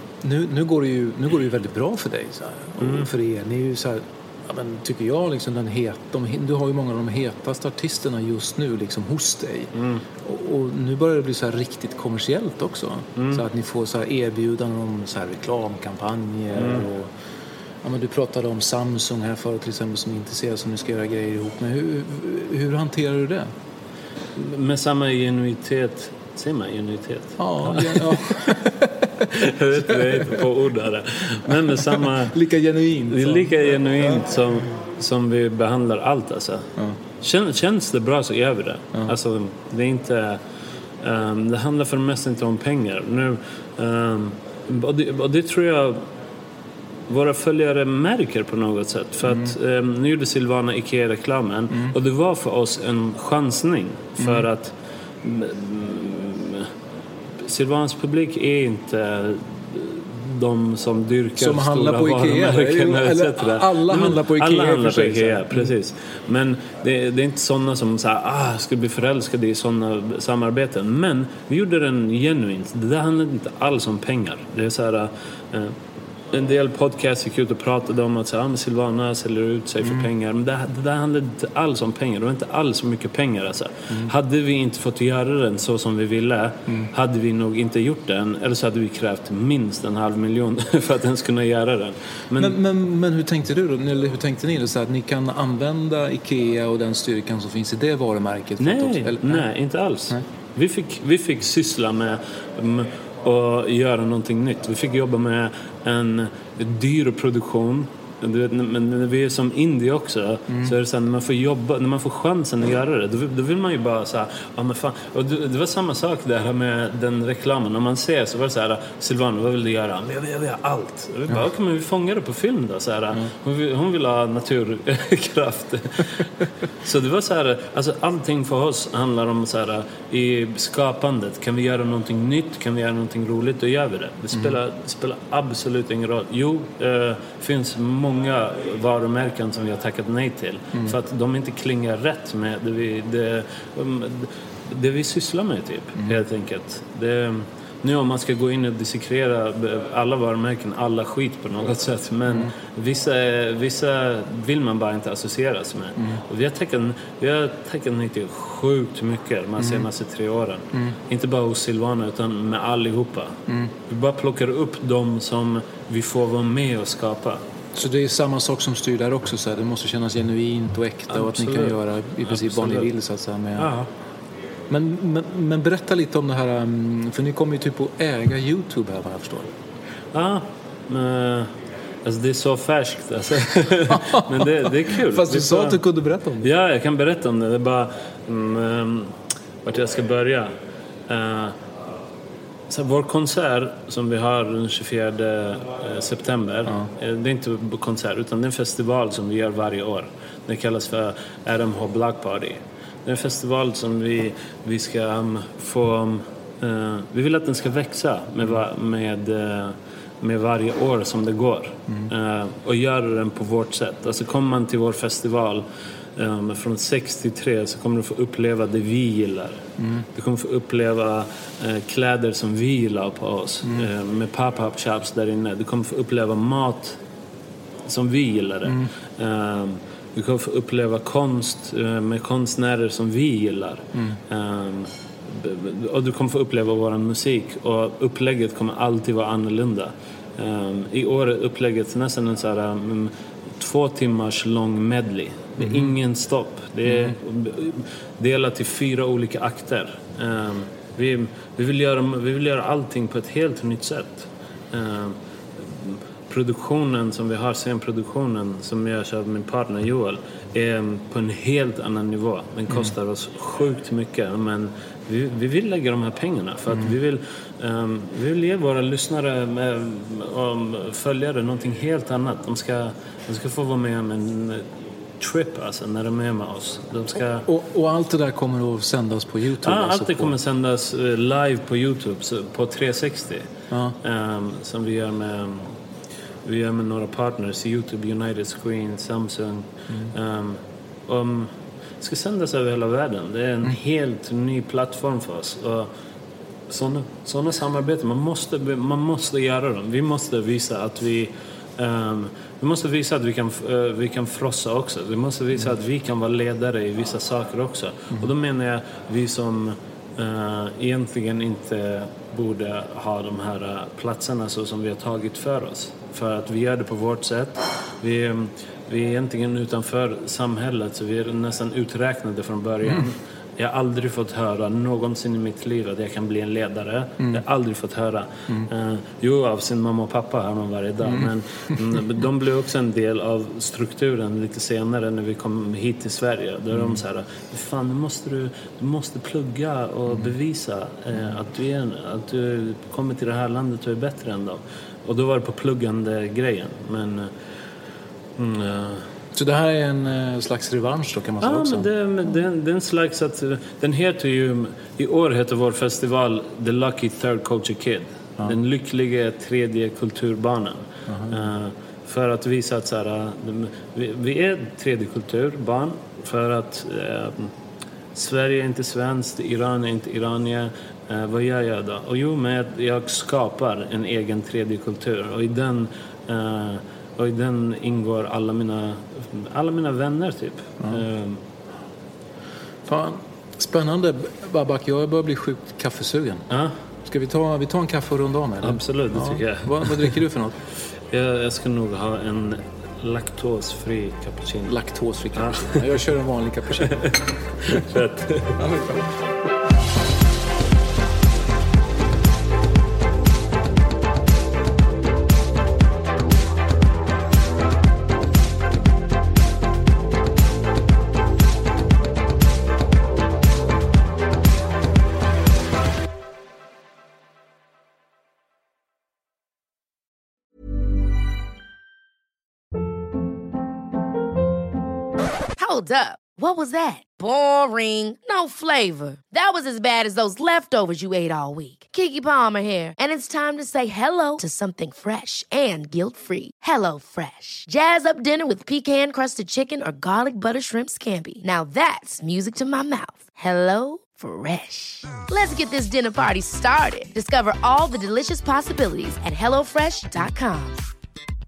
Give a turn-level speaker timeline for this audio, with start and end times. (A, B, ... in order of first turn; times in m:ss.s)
0:00.2-0:09.7 A
0:02.8-0:03.1 B
0:09.7-0:10.0 B
0:10.2-0:17.1 A
0:13.2-0:13.4 B
0:16.5-0:16.8 B
0:17.8-0:23.5 A
0:24.3-0:28.6 B
0:27.4-0:29.3 A
0:29.2-0:32.4 B
0:29.9-0:30.5 A
0:31.5-0:34.2 A
0:33.1-0:36.7 B
0:37.2-0:40.4 B
0:41.0-0:46.0 B
0:47.1-0:56.7 B
0:54.2-0:54.5 A
0:57.4-1:15.8 B
1:01.4-1:05.7 A
1:16.3-1:32.6 B
1:19.8-1:20.1 A
1:32.4-1:39.4 A
1:38.6-2:47.4 B
2:39.6-2:39.8 A
2:43.5-2:43.7 A
2:47.7-2:53.7 A
2:51.1-2:52.9 B
2:53.6-2:53.9 B
2:54.7-2:59.5 A
3:00.1-3:01.5 B
3:02.0-3:05.8 B
3:03.9-3:06.5 A
3:06.4-3:10.5 B
3:11.1-3:11.6 B
3:12.7-3:35.6 B
3:36.2-3:47.0 B
3:39.8-3:40.0 A
3:47.8-4:37.4 B
3:48.6-3:48.9 A
4:05.6-4:05.9 A
4:06.9-4:07.1 A
4:37.4-4:40.3 A
4:39.6-4:43.5 B
4:43.7-4:44.0 A
4:44.0-4:45.7 B
4:46.4-4:55.9 B
4:56.7-5:47.3 B
5:36.7-5:37.0 A
5:48.4-5:49.1 B
5:49.3-5:51.9 A
5:51.4-6:07.5 B
6:01.1-6:01.4 A
6:08.1-6:21.4 B
6:22.9-6:26.5 A
6:26.5-6:26.8 B
6:27.0-6:30.6 A
6:28.6-6:30.1 B
6:31.1-6:34.7 B
6:34.7-6:37.8 A
6:35.3-6:35.9 B
6:36.8-6:37.1 B
6:37.6-6:38.6 B
6:38.6-6:39.1 A
7:05.6-7:30.8 C